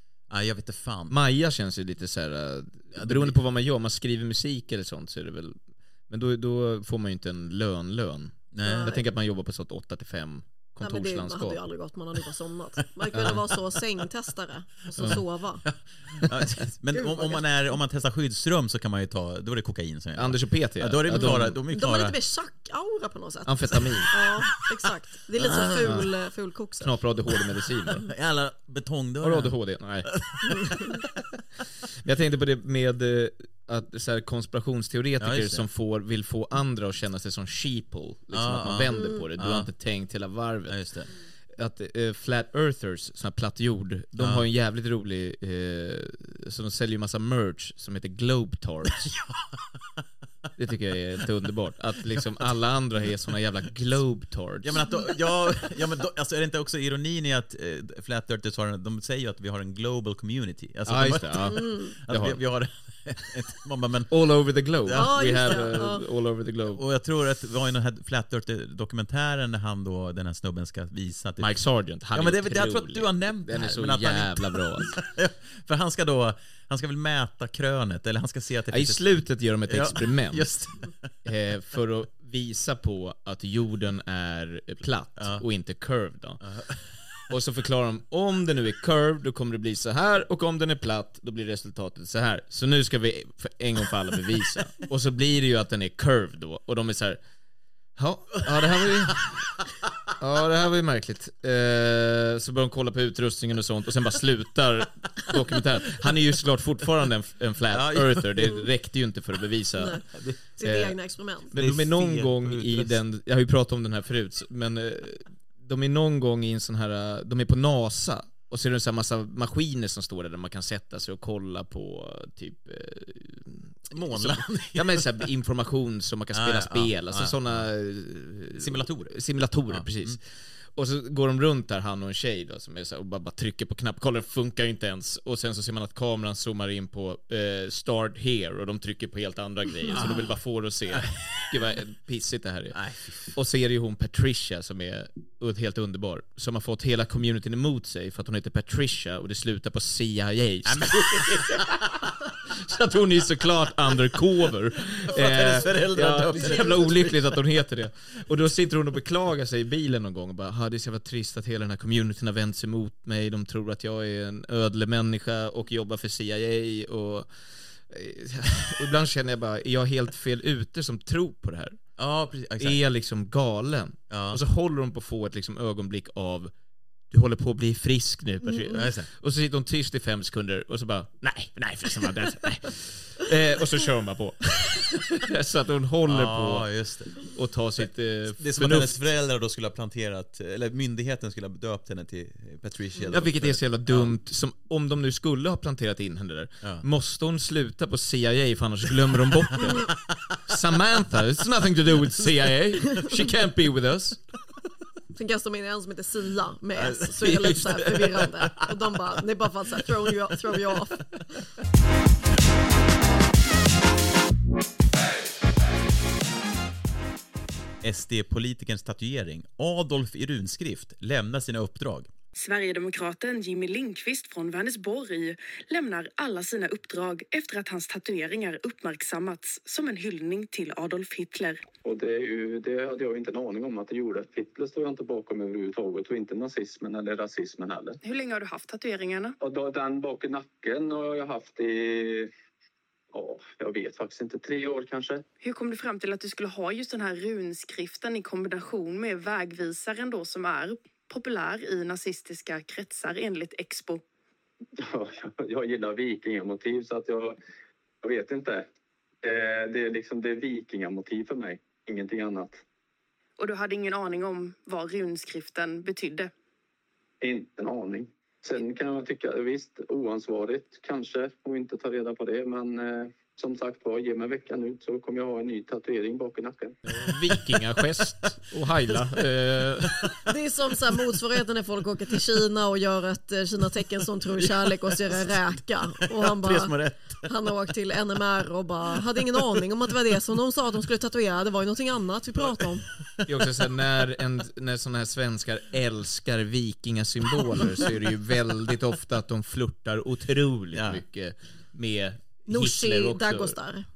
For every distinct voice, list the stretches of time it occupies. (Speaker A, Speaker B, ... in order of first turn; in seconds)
Speaker A: 0.3-1.2, 2.9-3.4, 8.5-9.0, 15.7-22.2, 25.4-26.1, 27.9-31.1, 35.2-35.7, 38.3-39.7, 40.7-41.1, 44.2-44.4, 49.2-49.7, 54.6-64.3, 64.8-65.8, 66.7-71.6, 72.1-79.1, 79.7-80.9, 85.2-85.4, 86.4-86.9, 107.7-108.6, 111.5-113.0, 123.9-125.2, 126.3-127.7, 128.5-129.2, 129.7-130.2, 139.9-140.3, 140.9-141.5, 142.7-143.3, 150.7-152.1, 155.1-157.3, 172.0-172.8, 174.1-174.4, 178.6-179.1, 186.1-187.2, 188.4-194.1, 199.6-200.2, 206.8-207.0, 217.8-222.1, 279.9-280.2, 284.4-287.3, 300.7-301.0
Speaker B: 1.1-11.6, 20.1-21.6, 23.4-24.1, 26.8-28.0, 29.2-30.1, 32.0-40.8, 41.5-49.1, 50.6-54.8, 60.9-62.4, 64.1-66.8, 71.4-74.9, 78.7-80.5, 81.2-86.4, 87.3-97.2, 98.0-99.4, 100.2-110.0, 110.6-111.0, 111.5-130.2, 130.7-142.8, 143.3-151.9, 152.5-167.3, 167.9-171.8, 172.6-176.5, 177.1-186.7, 187.3-188.9, 193.1-199.9, 200.5-204.2, 207.2-208.2, 276.8-280.0, 293.3-303.6
Speaker C: 8.6-9.0, 10.8-15.6, 16.9-17.4, 21.1-27.0, 30.5-30.9, 38.9-39.2, 61.5-61.9, 64.9-66.0, 109.8-111.5, 205.1-211.2, 280.2-286.7, 287.2-292.8, 302.5-303.8
Speaker D: 222.3-231.6, 238.0-239.3, 245.4-254.0, 263.4-266.3
Speaker E: 231.8-238.0, 239.4-242.3, 243.1-245.2, 254.8-257.4, 258.0-258.6, 259.2-262.6, 267.2-276.8